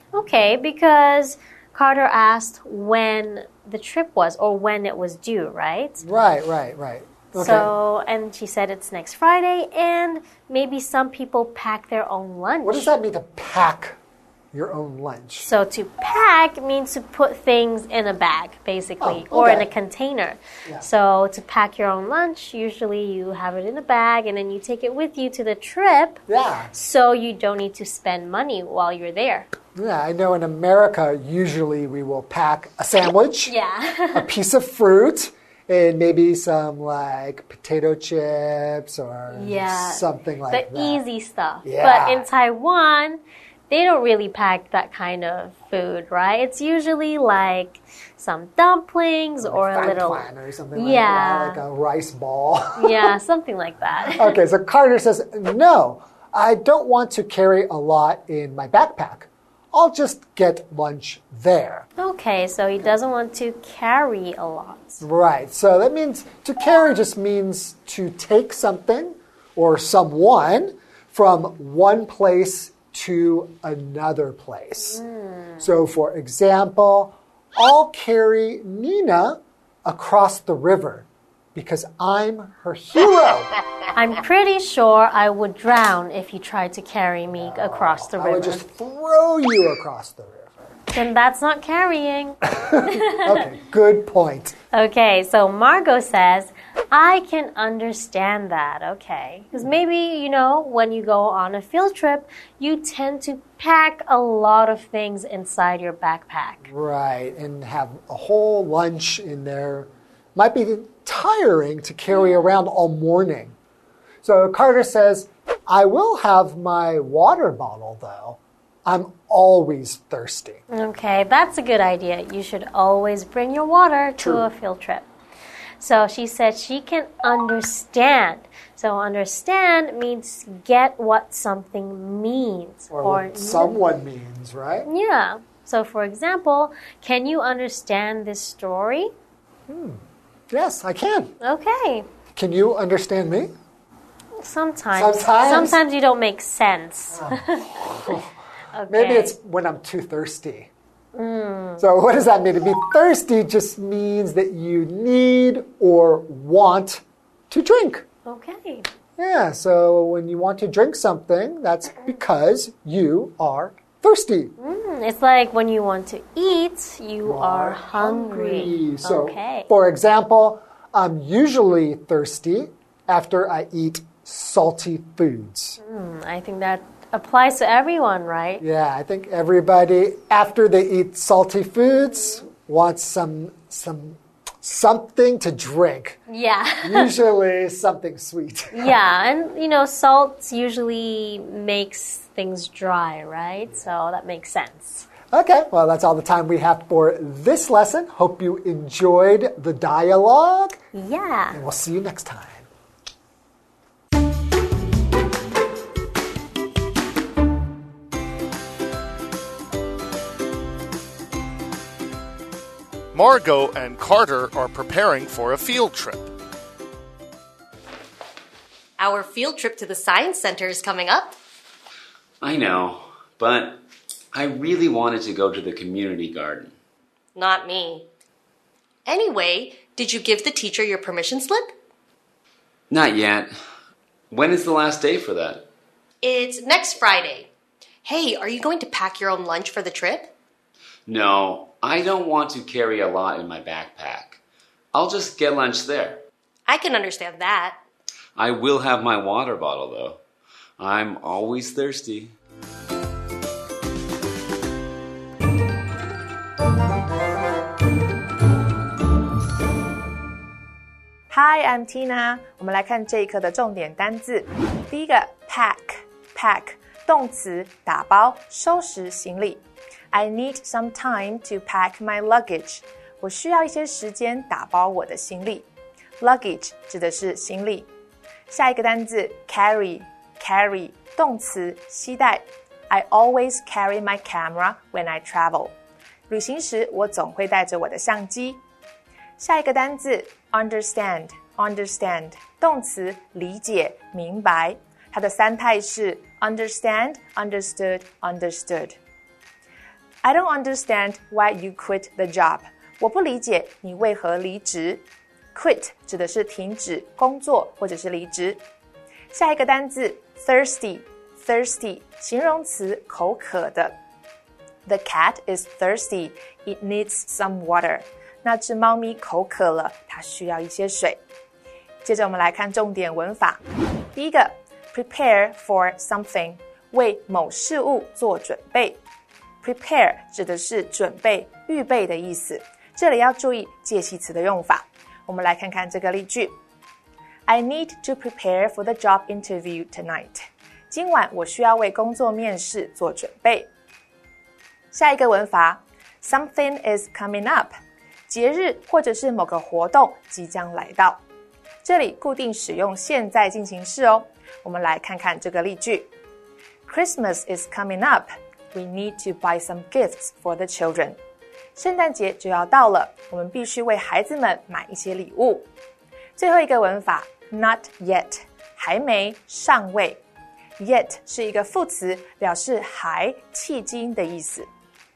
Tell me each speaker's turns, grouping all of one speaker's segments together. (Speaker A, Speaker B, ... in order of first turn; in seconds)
Speaker A: 0.1-6.0, 7.4-12.9, 15.4-26.2, 26.7-29.5, 33.5-34.3, 39.3-51.6, 52.8-54.4, 62.0-65.0, 74.9-75.6, 83.9-88.6, 90.9-93.1, 94.7-106.7, 120.7-125.1, 125.8-133.7, 134.9-139.1, 141.4-142.1, 144.4-147.9, 148.7-149.3, 151.2-151.8, 158.3-158.9, 164.6-169.7, 175.8-178.6, 186.3-187.1, 188.7-195.1, 200.9-201.6
Speaker B: 6.0-7.7, 12.6-14.0, 14.5-15.5, 19.0-19.7, 26.3-26.8, 29.8-33.5, 34.1-41.0, 41.6-42.3, 49.4-53.1, 54.1-61.9, 65.0-75.0, 75.6-83.5, 87.3-90.7, 92.7-94.6, 106.7-113.6, 114.2-120.6, 124.2-124.5, 132.9-134.9, 139.7-141.3, 142.3-143.5, 144.9-145.8, 147.1-148.3, 148.9-150.7, 151.8-158.1, 159.2-164.6, 167.3-175.8, 178.6-186.2, 186.8-189.0, 195.3-200.8, 201.5-202.7
Speaker C: 213.1-216.3
Speaker D: 219.0-221.4, 227.4-228.1, 229.1-231.7, 236.2-237.5, 238.0-240.3, 246.7-247.8
Speaker E: 222.4-226.8, 232.9-233.5, 234.3-235.7, 241.1-244.4, 244.9-246.2, 248.4-250.2, 250.8-252.4
Speaker F: 261.3-269.6, 270.1-275.7, 276.2-277.9, 278.5-285.8, 286.3-288.6, 289.4-299.0, 300.2-305.0, 305.5-308.6, 309.3-314.0, 314.9-321.2, 322.0-323.6, 324.1-329.0, 329.6-336.6, 337.5-343.7, 344.9-347.7, 348.3-351.2, 351.9-356.1, 356.9-361.2, 361.8-365.7, 366.4-370.2, 370.8-374.7